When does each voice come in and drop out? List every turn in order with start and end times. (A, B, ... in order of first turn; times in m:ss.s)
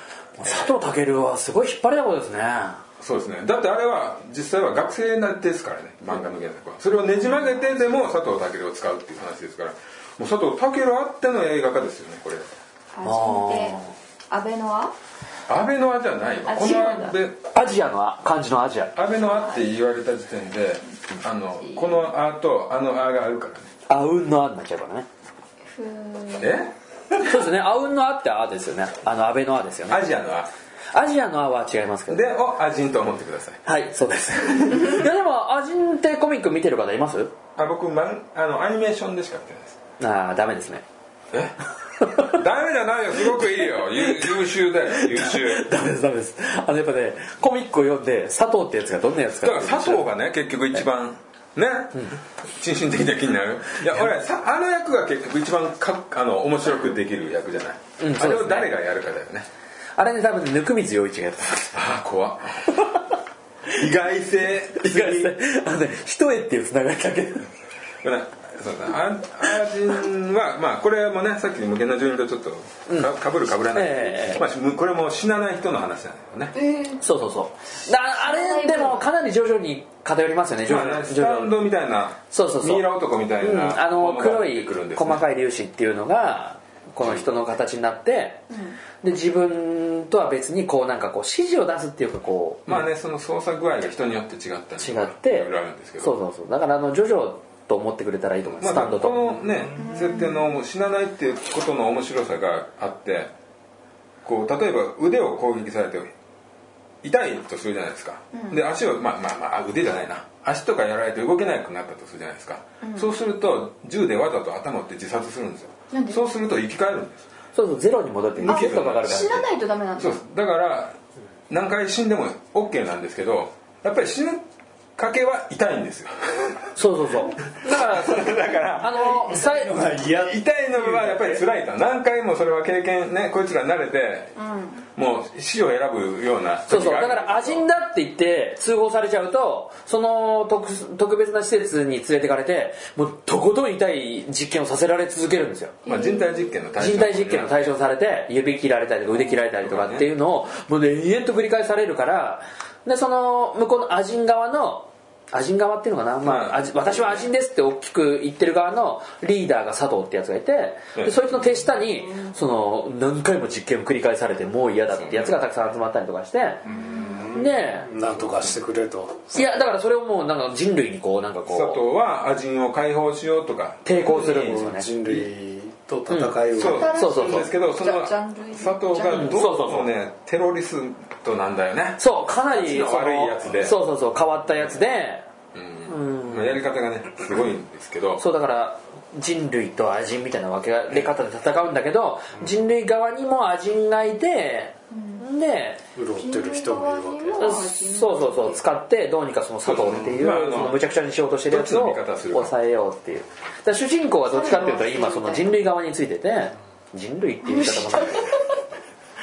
0:00.4-0:02.8 A
0:03.0-0:12.5 B
0:12.9-0:15.0 C
0:13.0-0:13.9 A
0:15.5-0:17.4 B
0:16.5-0:17.2 C
0:17.5-0:18.9 A
0:19.0-0:23.7 B
0:21.7-0:22.0 C
0:23.9-0:25.1 A
0:25.7-0:26.6 C
0:26.4-0:27.4 B
0:27.2-0:30.0 A
0:29.9-0:30.5 B
0:30.9-0:32.2 A
0:32.1-0:33.6 B
0:33.7-0:37.3 A
0:34.4-0:34.9 B
0:37.6-0:39.8 B
0:40.0-0:40.8 A
0:42.0-0:42.3 A
0:42.2-0:45.7 B
0:43.9-0:50.1 A
0:49.4-0:59.5 B
0:58.0-0:58.7 A
1:00.0-1:01.7 A
1:01.7-1:02.9 B
1:03.7-1:05.4 B
1:04.7-1:07.5 A
1:08.0-1:16.5 B
1:13.7-1:14.4 A
1:16.5-1:17.1 C
1:17.0-1:21.6 A
1:17.9-1:19.0 C
1:20.6-1:25.2 B
1:22.3-1:22.8 A
1:23.4-1:28.4 A
1:28.5-1:28.8 C
1:29.0-1:32.8 A
1:32.7-1:36.2 B
1:34.8-1:39.2 A
1:38.5-1:43.3 B
1:39.8-1:40.5 C
1:44.2-1:46.1 B
1:47.0-1:57.3 B
1:52.8-1:53.1 C
1:55.9-1:56.2 C
1:57.6-1:59.5 A
1:58.4-1:59.5 B
1:58.5-2:00.2 C
2:00.0-2:01.0 B
2:01.5-2:04.4 B
2:05.0-2:06.8 B
2:06.8-2:09.8 A
2:07.6-2:09.1 B
2:08.8-2:11.4 D
2:10.2-2:14.4 B
2:14.4-2:14.8 C
2:15.0-2:17.6 B
2:16.7-2:25.8 A
2:25.8-2:26.6 C
2:25.9-2:27.7 B
2:26.8-2:46.6 A
2:29.6-2:30.1 B
2:36.2-2:37.3 B
2:41.0-2:41.3 B
2:44.9-2:45.5 B
2:46.7-2:49.5 D
2:46.7-2:47.3 C
2:47.3-2:47.9 A
2:48.2-2:48.5 B
2:49.3-2:51.8 A
2:51.5-2:54.6 B
2:53.8-2:55.2 A
2:54.1-2:57.0 D
2:56.1-2:57.5 A
2:56.5-3:03.8 B
2:56.6-2:59.4 C
2:59.0-2:59.9 A
3:02.0-3:05.3 A
3:05.5-3:08.2 B
3:05.9-3:06.6 A
3:08.2-3:15.8 A
3:14.9-3:15.2 C
3:16.0-3:17.6 D
3:16.2-3:18.6 C
3:17.4-3:28.4 A
3:19.6-3:20.9 B
3:21.4-3:22.5 B
3:24.3-3:25.6 C
3:27.4-3:28.6 C